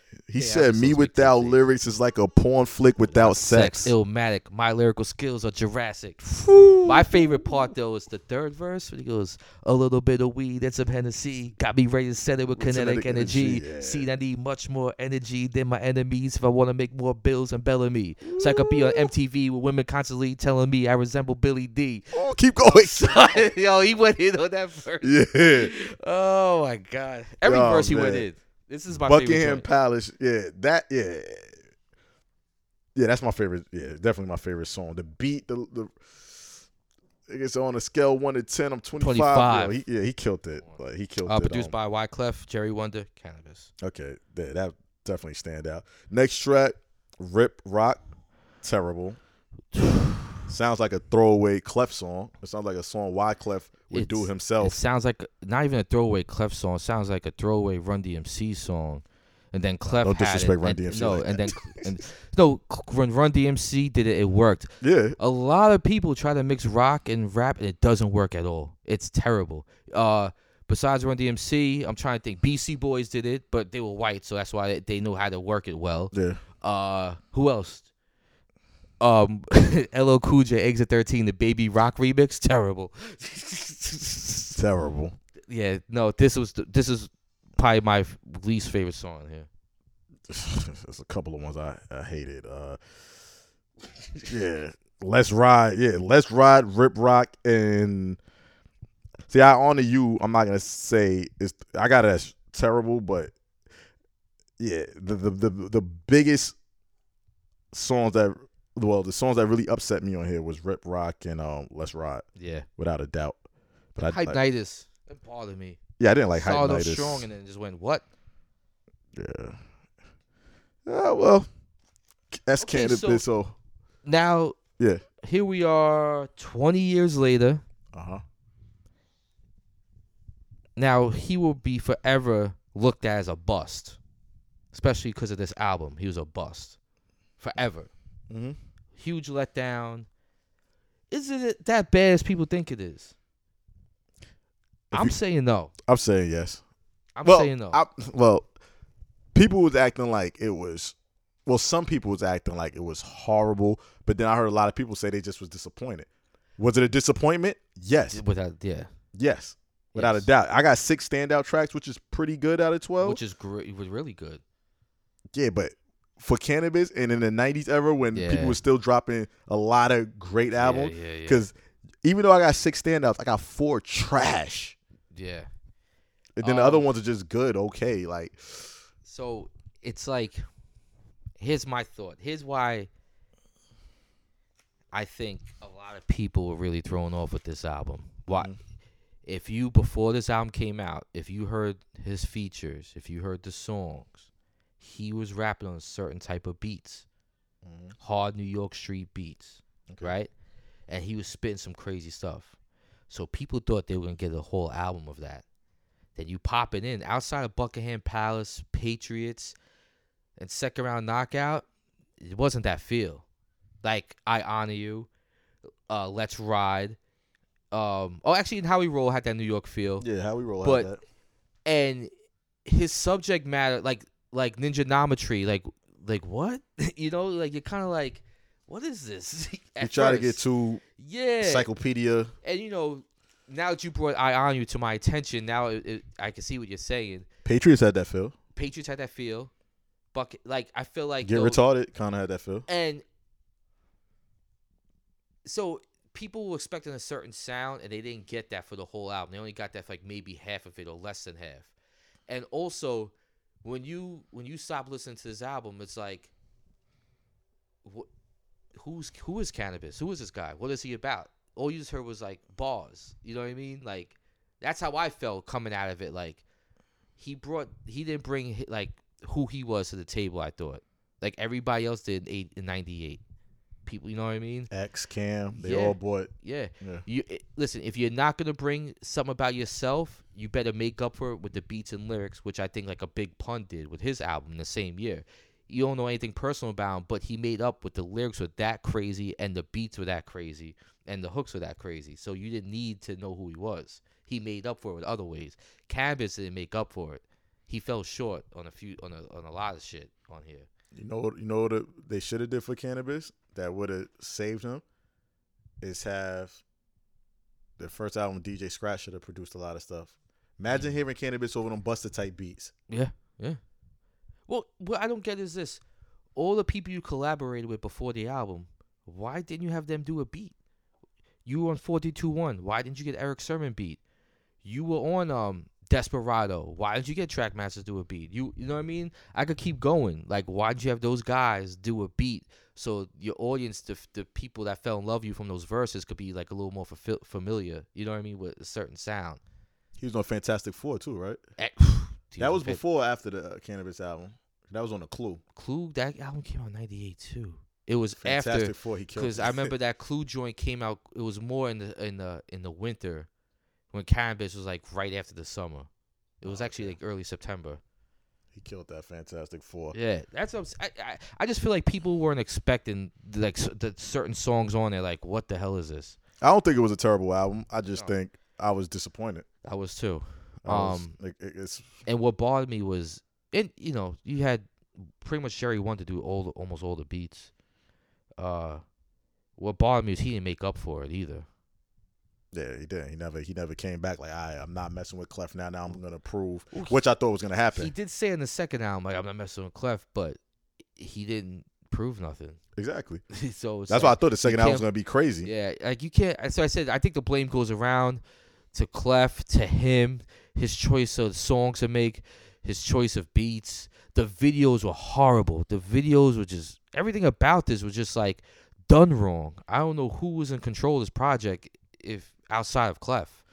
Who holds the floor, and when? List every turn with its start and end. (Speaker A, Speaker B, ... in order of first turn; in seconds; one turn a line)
Speaker A: 0.3-3.9
Speaker B: 0.3-1.6
Speaker B: 3.1-6.2
Speaker A: 6.2-7.5
Speaker B: 6.8-29.7
Speaker A: 12.6-14.1
Speaker A: 18.2-19.1
Speaker A: 22.1-23.4
Speaker A: 25.0-25.7
Speaker A: 27.4-28.2
Speaker A: 28.9-31.5
Speaker A: 32.9-36.5
Speaker A: 37.3-41.7
Speaker B: 39.0-39.8
Speaker B: 40.7-43.7
Speaker A: 43.8-48.0
Speaker A: 48.6-49.2
Speaker B: 49.7-50.4
Speaker A: 50.5-54.8
Speaker B: 53.9-77.9
Speaker A: 60.0-61.9
Speaker A: 64.8-65.2
Speaker A: 76.1-76.4
Speaker B: 79.0-84.6
Speaker A: 84.5-85.1
Speaker B: 85.5-89.5
Speaker A: 90.3-92.8
Speaker A: 94.2-98.2
Speaker A: 99.3-103.3
Speaker A: 104.6-106.5
Speaker A: 107.7-112.2
Speaker B: 112.4-112.7
Speaker A: 112.8-113.4
Speaker A: 113.9-114.4
Speaker B: 114.0-115.8
Speaker A: 116.0-117.3
Speaker B: 116.3-118.0
Speaker A: 119.2-119.6
Speaker A: 120.8-121.5
Speaker A: 122.3-123.5
Speaker B: 122.6-123.2
Speaker B: 124.0-124.6
Speaker B: 125.2-127.6
Speaker A: 127.9-128.2
Speaker B: 130.8-134.0
Speaker B: 134.7-136.8
Speaker B: 137.4-137.9
Speaker A: 138.3-138.6
Speaker B: 138.9-140.1
Speaker B: 141.1-143.1
Speaker A: 144.9-145.2
Speaker B: 144.9-145.7
Speaker A: 145.8-146.6
Speaker B: 147.2-147.8
Speaker A: 147.2-148.5
Speaker A: 149.3-150.9
Speaker A: 151.4-158.2
Speaker B: 158.1-158.9
Speaker A: 159.1-163.2
Speaker B: 159.9-160.3
Speaker B: 163.0-164.4
Speaker A: 165.3-174.8
Speaker B: 168.1-168.6
Speaker B: 170.6-171.4
Speaker B: 175.1-175.5
Speaker A: 176.4-178.7
Speaker B: 176.4-176.9
Speaker B: 179.0-180.4
Speaker B: 181.4-182.9
Speaker B: 184.9-188.5
Speaker B: 189.2-194.3
Speaker B: 194.8-197.1
Speaker A: 197.6-197.9
Speaker B: 198.0-200.3
Speaker A: 199.9-200.1
Speaker B: 200.9-202.5
Speaker B: 203.1-205.4
Speaker B: 206.2-209.6
Speaker B: 210.4-211.6
Speaker B: 212.2-213.2
Speaker B: 213.8-215.1
Speaker B: 215.9-217.0
Speaker B: 217.7-220.0
Speaker A: 220.0-221.0
Speaker B: 220.6-220.9
Speaker B: 221.7-222.1
Speaker B: 222.7-230.4
Speaker A: 229.8-230.8
Speaker B: 231.0-231.7
Speaker A: 231.4-232.3
Speaker B: 232.4-237.3
Speaker A: 237.4-238.3
Speaker B: 238.5-239.5
Speaker B: 240.1-241.6
Speaker A: 241.2-242.7
Speaker B: 242.7-243.0
Speaker B: 245.4-251.7
Speaker B: 252.3-256.3
Speaker B: 258.8-266.4
Speaker B: 267.2-273.2
Speaker B: 273.9-274.7
Speaker A: 274.7-277.0
Speaker B: 275.5-300.7
Speaker A: 300.9-304.8
Speaker A: 305.8-306.6
Speaker A: 307.8-312.7
Speaker B: 310.7-311.0
Speaker B: 312.9-313.6
Speaker B: 314.5-315.8
Speaker B: 316.4-320.5
Speaker B: 321.4-324.0
Speaker B: 324.6-339.4
Speaker A: 340.0-341.4
Speaker B: 341.6-342.8
Speaker A: 342.4-345.4
Speaker B: 345.5-353.3
Speaker A: 348.2-349.7
Speaker B: 353.9-355.9
Speaker B: 356.4-357.8
Speaker A: 356.4-356.9
Speaker A: 358.5-359.9
Speaker B: 359.9-366.2
Speaker A: 366.4-369.4
Speaker B: 369.6-371.1
Speaker A: 370.6-371.9
Speaker B: 372.1-374.7
Speaker B: 375.2-377.5
Speaker B: 378.4-378.8
Speaker B: 379.6-381.5
Speaker A: 382.5-387.9
Speaker B: 386.7-387.0
Speaker B: 387.8-390.4
Speaker B: 390.9-392.6
Speaker A: 392.8-393.2
Speaker B: 393.3-394.9
Speaker A: 393.9-395.5
Speaker B: 395.4-398.2
Speaker B: 398.7-413.4